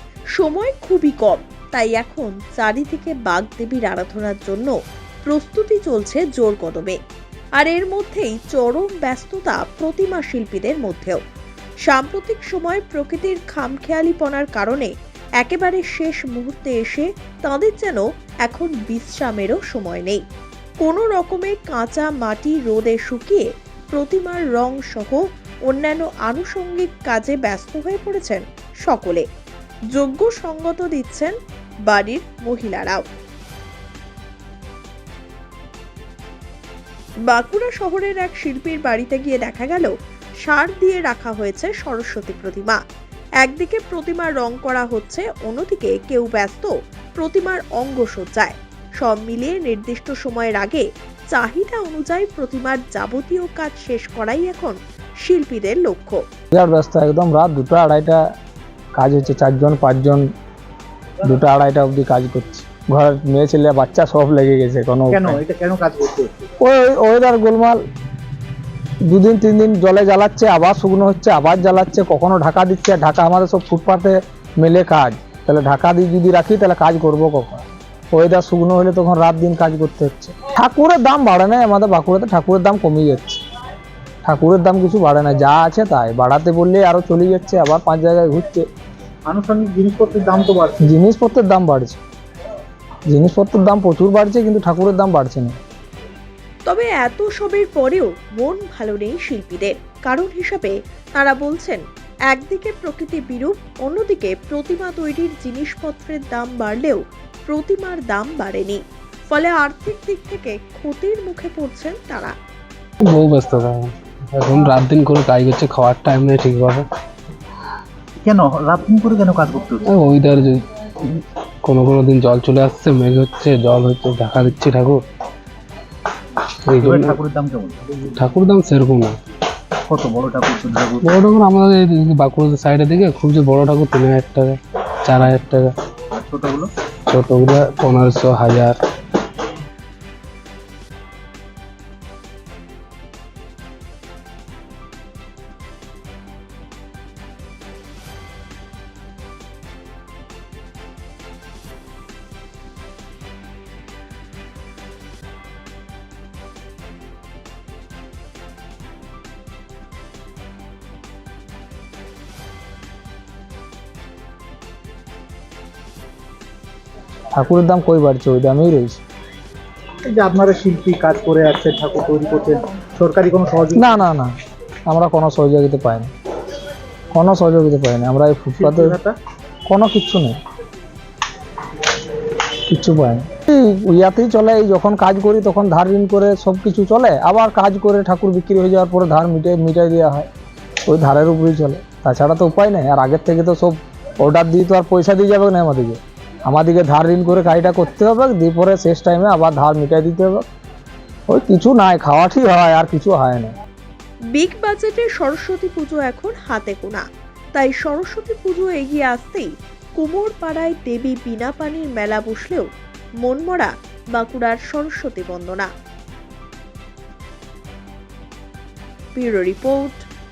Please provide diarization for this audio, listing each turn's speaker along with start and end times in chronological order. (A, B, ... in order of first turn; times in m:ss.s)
0:00.4-0:04.7 A
0:05.2-0:07.0 A
0:07.6-0:11.2 A
0:11.9-0:20.2 A
0:20.8-0:29.3 A
0:29.9-0:31.4 A
0:31.9-0:33.0 A
0:37.2-0:39.9 A
0:40.4-0:42.8 A
0:43.4-0:56.2 A
0:56.5-0:58.2 B
0:59.0-1:00.2 B
1:01.2-1:05.4 B
1:05.1-1:06.5 C
1:06.6-1:07.8 B
1:09.1-1:23.4 B
1:24.2-1:28.6 B
1:29.3-1:30.9 C
1:30.8-1:32.0 B
1:33.1-1:35.5 B
1:36.7-1:52.4 A
1:53.0-1:56.8 D
1:58.2-1:59.8 C
1:59.9-2:05.0 D
2:06.7-2:07.2 D
2:06.7-2:07.8 C
2:08.0-2:09.2 D
2:09.9-2:11.1 C
2:11.0-2:15.7 D
2:16.1-2:16.7 C
2:17.1-2:19.1 D
2:47.4-2:49.0 B
2:50.0-2:53.9 C
2:53.7-2:54.3 B
2:54.9-2:56.1 B
2:57.1-2:59.0 B
2:58.6-2:59.2 C
2:59.7-3:00.4 B
3:02.3-3:10.3 B
3:10.8-3:20.4 B
3:21.3-3:23.5 B
3:24.3-3:32.7 A
3:33.2-3:35.7 A
3:39.2-3:40.1 A